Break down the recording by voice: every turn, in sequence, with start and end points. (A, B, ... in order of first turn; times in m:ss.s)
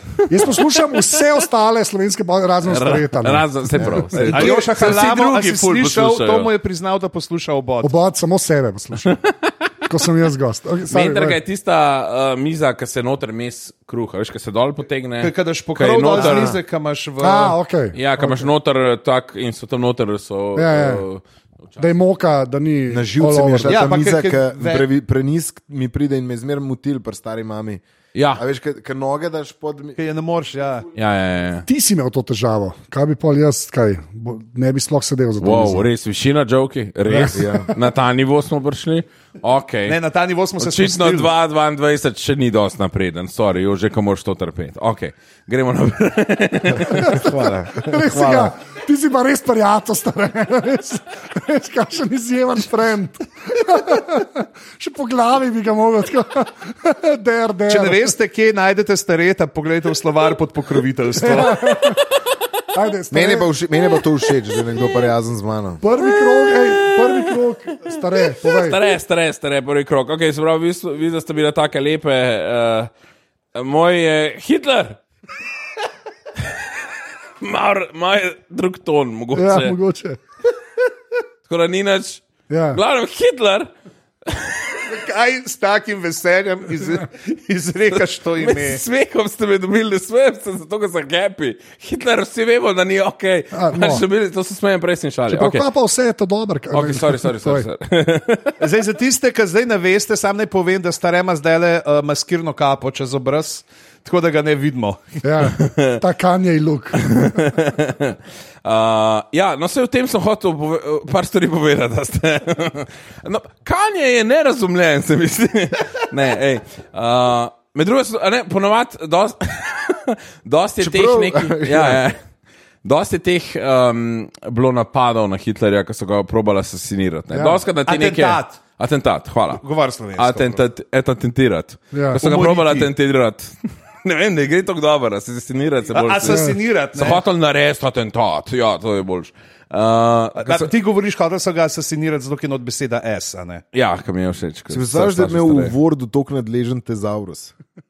0:00.3-0:04.5 A
0:00.3-0:01.0 B
0:02.6-0:06.5 B
0:03.8-0:04.1 C
0:04.2-0:07.9 D
0:07.8-0:09.2 A
0:09.9-0:11.4 A
0:10.9-0:16.6 B
0:15.2-0:17.6 D
0:17.2-0:18.5 A
0:17.9-0:21.9 B
0:20.6-0:21.0 A
0:21.8-0:23.8 A
0:22.9-0:27.8 C
0:23.6-0:24.9 D
0:28.2-0:28.4 B
0:28.3-0:30.0 C
0:30.0-0:30.9 D
0:31.0-0:31.7 B
0:31.7-0:35.9 A
0:35.4-0:40.0 B
0:37.1-0:37.7 A
0:37.3-0:37.7 C
0:39.9-0:41.3 D
0:40.6-0:47.2 B
0:46.8-0:48.5 C
0:46.9-0:58.1 A
0:57.7-1:01.6 D
1:01.2-1:02.1 A
1:02.7-1:03.5 A
1:03.1-1:05.8 C
1:05.8-1:08.8 A
1:06.0-1:12.9 B
1:13.5-1:15.0 B
1:17.4-1:19.8 B
1:19.4-1:20.2 A
1:21.5-1:23.7 B
1:22.5-1:22.8 A
1:24.3-1:24.8 B
1:24.9-1:28.8 D
1:28.4-1:35.7 B
1:33.5-1:34.0 A
1:35.3-1:37.7 A
1:36.7-1:38.6 B
1:38.6-1:45.2 D
1:45.2-1:47.6 A
1:45.4-1:46.0 B
1:47.0-2:02.2 B
2:00.8-2:02.0 C
2:02.8-2:09.6 B
2:07.3-2:07.6 A
2:07.9-2:08.6 D
2:09.5-2:10.6 D
2:10.2-2:20.7 B
2:11.9-2:12.2 A
2:12.2-2:12.9 D
2:15.9-2:17.2 D
2:16.3-2:16.6 A
2:20.4-2:23.6 D
2:23.7-2:25.7 B
2:24.7-2:27.5 C